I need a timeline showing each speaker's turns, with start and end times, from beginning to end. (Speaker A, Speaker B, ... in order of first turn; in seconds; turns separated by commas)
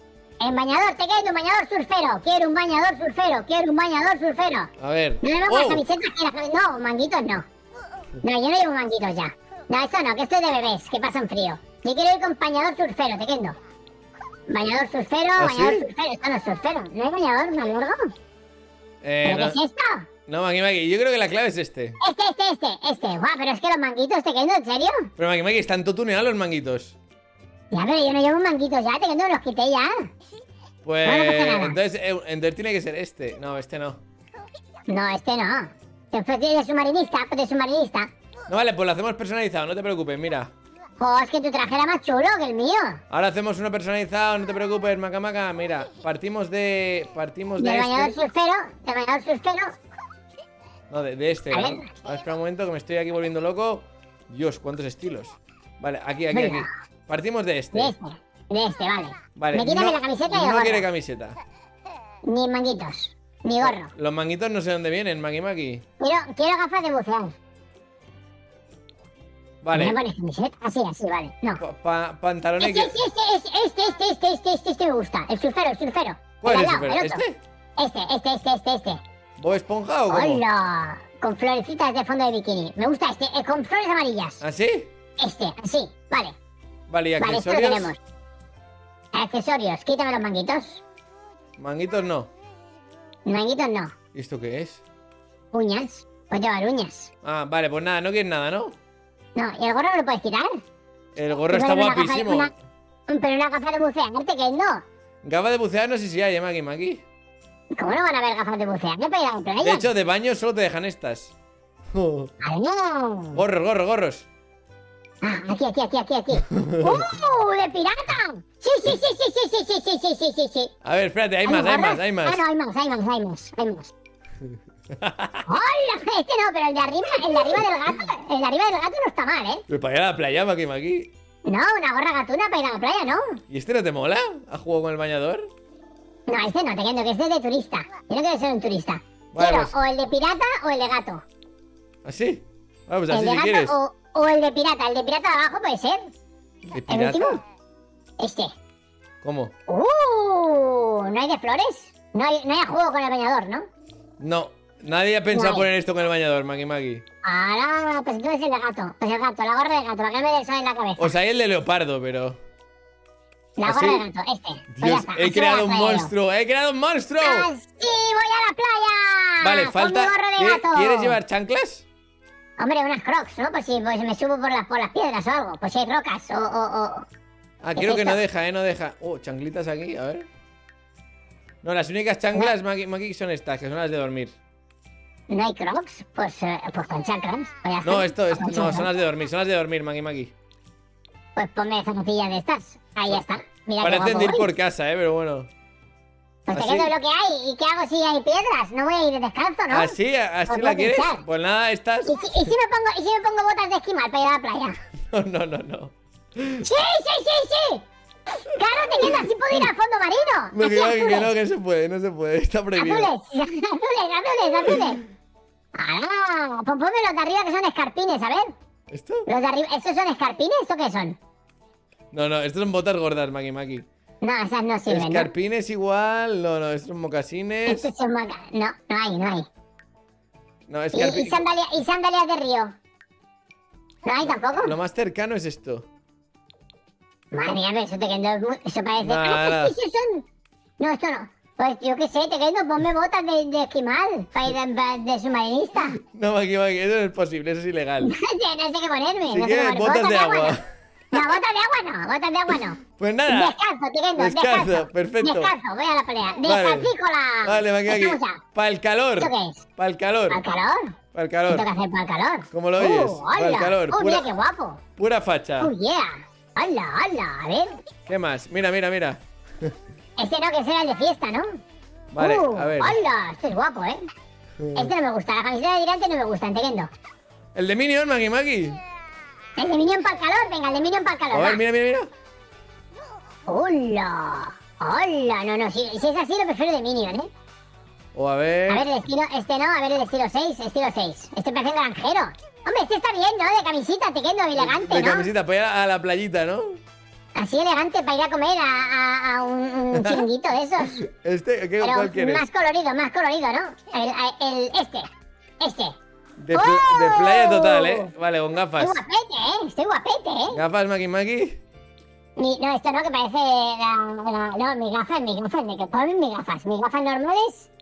Speaker A: 0.4-4.7, Speaker B: 4.8-5.8, Speaker A: 5.2-7.4, Speaker A: 8.2-13.5, Speaker A: 14.5-18.1, Speaker B: 15.4-15.9, Speaker B: 19.0-19.6, Speaker A: 19.2-20.1, Speaker B: 20.3-22.0, Speaker A: 22.0-25.1, Speaker B: 25.2-26.9, Speaker A: 27.7-30.1, Speaker B: 30.8-34.0, Speaker A: 31.0-31.8, Speaker A: 34.9-38.1, Speaker B: 38.5-40.5, Speaker A: 41.0-43.0, Speaker B: 43.1-48.1, Speaker A: 47.6-49.7, Speaker B: 50.9-57.9, Speaker A: 51.5-51.9, Speaker A: 56.3-56.7, Speaker A: 57.7-60.8, Speaker B: 59.4-61.4, Speaker A: 62.2-63.9, Speaker B: 63.6-65.8, Speaker A: 66.0-67.3, Speaker B: 69.6-70.0, Speaker A: 69.7-71.6, Speaker B: 71.6-73.0, Speaker A: 72.6-77.2, Speaker B: 76.4-77.4, Speaker A: 77.8-79.0, Speaker B: 79.4-80.4, Speaker A: 80.1-84.4, Speaker B: 84.4-84.9, Speaker A: 85.2-86.3, Speaker B: 86.9-87.9, Speaker A: 87.2-88.0, Speaker A: 89.1-90.8, Speaker B: 91.6-92.3, Speaker A: 93.2-93.9, Speaker B: 94.1-94.8, Speaker A: 95.5-97.1, Speaker B: 97.2-98.7, Speaker A: 99.3-100.6, Speaker B: 101.2-102.5, Speaker A: 101.5-102.5, Speaker A: 103.1-104.8, Speaker B: 105.2-107.0, Speaker A: 107.7-109.9, Speaker B: 109.6-111.3, Speaker B: 111.9-112.3, Speaker A: 112.4-113.4, Speaker B: 113.3-114.3, Speaker A: 115.2-120.7, Speaker B: 116.5-117.0, Speaker B: 120.8-122.4, Speaker A: 121.4-123.9, Speaker B: 124.9-125.5, Speaker A: 125.5-129.6, Speaker B: 129.7-131.1, Speaker A: 131.4-133.4, Speaker B: 133.5-135.5, Speaker A: 136.3-141.2, Speaker B: 139.3-139.7, Speaker B: 142.0-143.8, Speaker A: 143.1-146.1, Speaker B: 146.7-147.4, Speaker A: 146.9-147.4, Speaker A: 148.2-148.5, Speaker B: 149.2-149.5, Speaker A: 149.7-153.7, Speaker B: 154.2-157.0, Speaker A: 155.3-155.7, Speaker A: 157.2-161.1, Speaker B: 161.0-162.4, Speaker A: 163.6-166.1, Speaker B: 163.7-164.0, Speaker B: 164.7-167.5, Speaker A: 167.2-171.2, Speaker B: 169.4-171.8, Speaker A: 172.6-177.1, Speaker B: 177.6-180.3, Speaker A: 177.8-178.2, Speaker B: 181.6-184.3, Speaker A: 185.3-188.9, Speaker B: 187.8-190.3, Speaker A: 191.3-194.5, Speaker B: 193.8-195.5, Speaker A: 196.5-199.9, Speaker B: 196.5-196.9, Speaker B: 199.7-202.5, Speaker A: 200.5-201.2, Speaker A: 202.0-204.8, Speaker B: 205.1-206.7, Speaker A: 206.6-207.8, Speaker A: 208.4-211.2, Speaker B: 208.6-209.7, Speaker B: 210.5-213.1, Speaker A: 212.8-215.0, Speaker A: 215.7-218.5, Speaker B: 218.9-219.3, Speaker A: 219.3-221.2, Speaker B: 222.1-223.9, Speaker A: 224.2-225.3, Speaker B: 224.9-227.9, Speaker A: 227.7-229.5, Speaker B: 230.7-231.4, Speaker A: 230.9-232.7, Speaker A: 234.1-234.7, Speaker B: 234.2-235.9, Speaker A: 237.3-240.2, Speaker B: 239.0-239.8, Speaker A: 240.8-246.0, Speaker B: 245.9-248.1, Speaker A: 248.0-250.6, Speaker B: 249.3-251.4, Speaker A: 251.1-258.4, Speaker B: 252.9-253.6, Speaker B: 254.2-255.5, Speaker B: 256.4-256.9, Speaker B: 257.4-260.4, Speaker A: 259.2-259.6, Speaker A: 260.3-260.9, Speaker B: 261.1-261.7, Speaker A: 261.5-264.8, Speaker B: 262.5-264.3, Speaker B: 265.0-265.7, Speaker A: 265.6-267.8, Speaker B: 268.1-269.7, Speaker A: 270.2-271.5, Speaker B: 272.1-273.0, Speaker A: 272.2-274.1, Speaker B: 274.6-274.9, Speaker A: 274.7-276.9, Speaker B: 277.5-278.8, Speaker A: 279.6-281.6, Speaker B: 281.3-282.1, Speaker A: 283.5-287.3, Speaker B: 288.1-288.9, Speaker A: 288.7-295.3, Speaker B: 294.6-296.8, Speaker A: 297.4-301.0, Speaker B: 299.9-300.2, Speaker B: 300.8-302.4, Speaker A: 301.8-305.1, Speaker A: 305.6-305.9, Speaker B: 306.4-309.0, Speaker A: 306.5-308.1, Speaker A: 308.8-310.6, Speaker B: 310.5-311.6, Speaker A: 312.4-317.7